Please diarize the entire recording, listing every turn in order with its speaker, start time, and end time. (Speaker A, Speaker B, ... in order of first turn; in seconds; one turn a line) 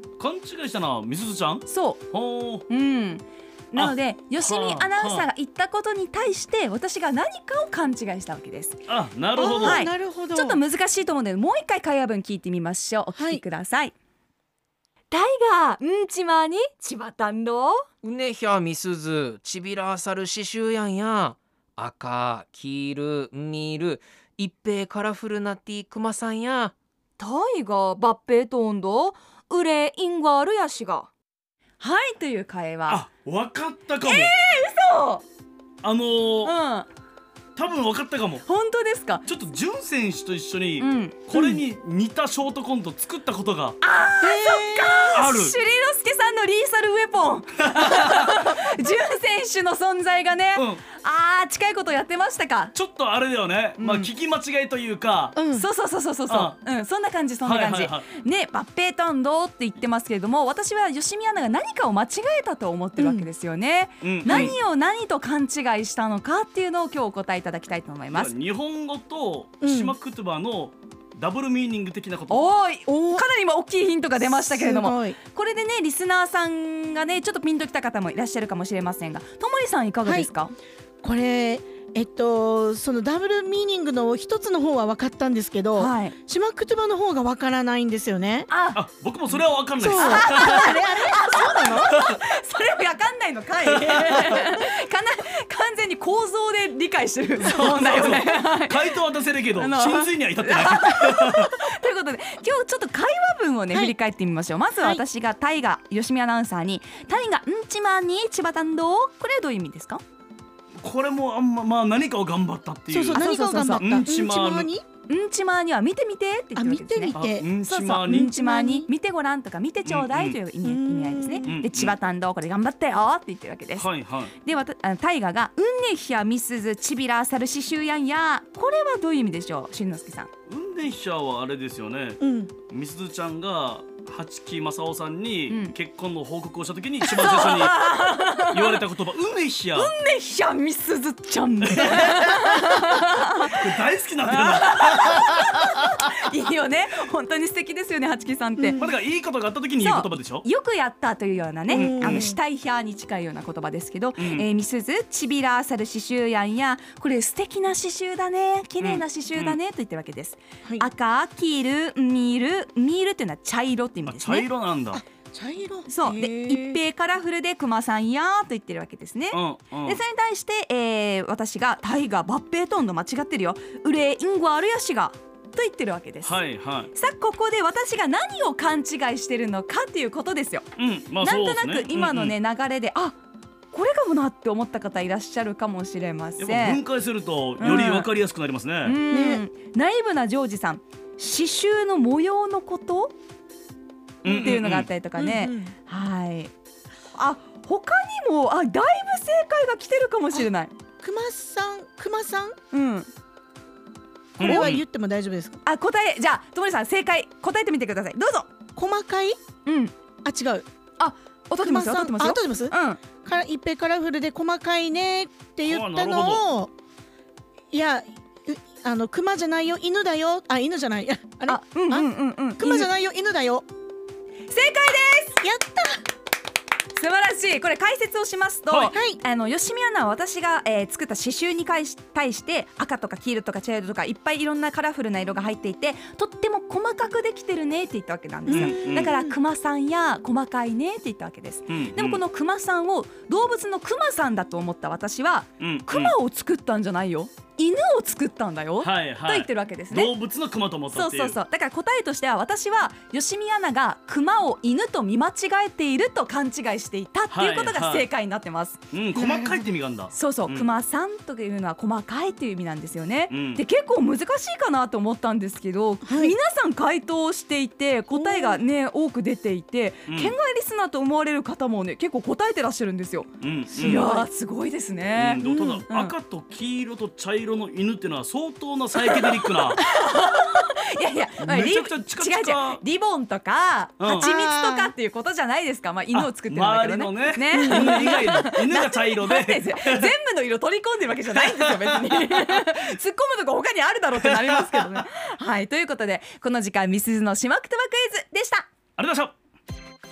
Speaker A: 0.2-2.6
Speaker B: 1.7-2.0
Speaker B: 2.7-8.8
Speaker A: 3.8-5.3
Speaker A: 8.9-9.8
Speaker C: 9.4-10.6
Speaker B: 9.5-13.9
Speaker C: 13.2-13.4
Speaker D: 15.1-17.8
Speaker B: 16.6-16.9
Speaker E: 18.0-26.7
Speaker D: 27.2-31.1
Speaker B: 27.6-30.9
Speaker B: 31.8-33.0
Speaker A: 32.9-34.3
Speaker B: 34.0-35.2
Speaker A: 35.8-36.5
Speaker B: 36.4-36.9
Speaker A: 37.5-38.4
Speaker B: 38.4-39.2
Speaker A: 39.2-43.8
Speaker B: 40.8-41.6
Speaker B: 43.8-52.7
Speaker C: 44.2-45.0
Speaker A: 45.1-45.6
Speaker A: 47.7-48.4
Speaker A: 50.5-50.8
Speaker A: 52.7-55.4
Speaker B: 53.8-54.1
Speaker C: 55.4-55.7
Speaker B: 55.5-68.3
Speaker A: 56.3-56.5
Speaker A: 57.4-58.0
Speaker C: 63.0-63.3
Speaker A: 64.0-64.5
Speaker C: 64.2-64.5
Speaker A: 68.1-72.5
Speaker C: 69.6-69.9
Speaker B: 72.3-80.5
Speaker C: 74.2-75.2
Speaker C: 81.0-88.5
Speaker B: 85.8-86.2
Speaker B: 88.5-88.8
Speaker A: 88.7-90.8
Speaker C: 89.8-91.9
Speaker B: 89.9-98.9
Speaker A: 93.7-94.4
Speaker A: 97.4-101.5
Speaker B: 99.6-110.0
Speaker A: 110.8-114.7
Speaker C: 112.9-114.8
Speaker B: 113.1-114.1
Speaker B: 115.1-130.3
Speaker C: 116.5-117.5
Speaker A: 117.1-118.3
Speaker C: 118.1-118.9
Speaker A: 119.8-120.4
Speaker C: 120.6-121.5
Speaker A: 121.5-121.9
Speaker A: 123.8-124.3
Speaker A: 130.5-139.9
Speaker C: 132.2-132.5
Speaker B: 135.5-135.7
Speaker B: 137.0-138.8
Speaker B: 139.7-143.6
Speaker A: 141.6-142.4
Speaker A: 143.2-145.6
Speaker B: 144.3-148.8
Speaker C: 148.6-148.8
Speaker A: 148.8-150.4
Speaker B: 149.8-164.5
Speaker C: 151.7-152.4
Speaker A: 151.7-152.3
Speaker A: 154.2-154.4
Speaker A: 158.8-159.6
Speaker A: 164.1-165.0
Speaker C: 164.9-166.8
Speaker B: 165.9-176.4
Speaker A: 169.3-170.0
Speaker A: 176.2-176.9
Speaker B: 176.9-180.7
Speaker A: 180.8-182.3
Speaker B: 181.2-183.2
Speaker B: 183.7-186.8
Speaker A: 186.4-189.0
Speaker B: 187.6-188.1
Speaker B: 188.8-193.1
Speaker C: 189.1-189.4
Speaker A: 194.2-194.9
Speaker C: 194.2-194.6
Speaker B: 194.2-196.5
Speaker C: 195.2-195.7
Speaker B: 197.1-200.7
Speaker C: 201.0-202.6
Speaker B: 202.7-203.1
Speaker A: 204.4-204.8
Speaker C: 204.4-205.6
Speaker B: 204.4-204.7
Speaker B: 205.6-208.5
Speaker C: 208.8-209.4
Speaker B: 209.6-209.9
Speaker C: 210.2-210.7
Speaker B: 211.0-213.0
Speaker C: 211.6-216.7
Speaker A: 215.6-216.4
Speaker C: 217.7-223.7
Speaker B: 221.5-222.9
Speaker B: 224.5-225.4
Speaker C: 225.4-226.0
Speaker B: 226.9-250.1
Speaker A: 228.7-228.9
Speaker C: 228.9-229.2
Speaker C: 238.5-239.3
Speaker A: 238.5-239.1
Speaker A: 241.7-242.2
Speaker A: 245.6-246.1
Speaker A: 248.8-251.4
Speaker B: 250.9-258.8
Speaker A: 257.3-258.1
Speaker A: 258.9-260.7
Speaker C: 259.1-259.6
Speaker B: 260.1-276.1
Speaker A: 263.3-263.6
Speaker C: 266.0-266.3
Speaker C: 268.1-268.6
Speaker A: 270.1-270.3
Speaker A: 273.4-274.1
Speaker C: 273.7-274.2
Speaker A: 275.1-279.8
Speaker B: 278.9-298.7
Speaker A: 281.4-282.8
Speaker A: 284.0-284.3
Speaker C: 284.1-284.9
Speaker A: 286.1-290.1
Speaker C: 287.5-288.0
Speaker A: 291.3-292.7
Speaker A: 294.1-295.0
Speaker A: 299.0-299.3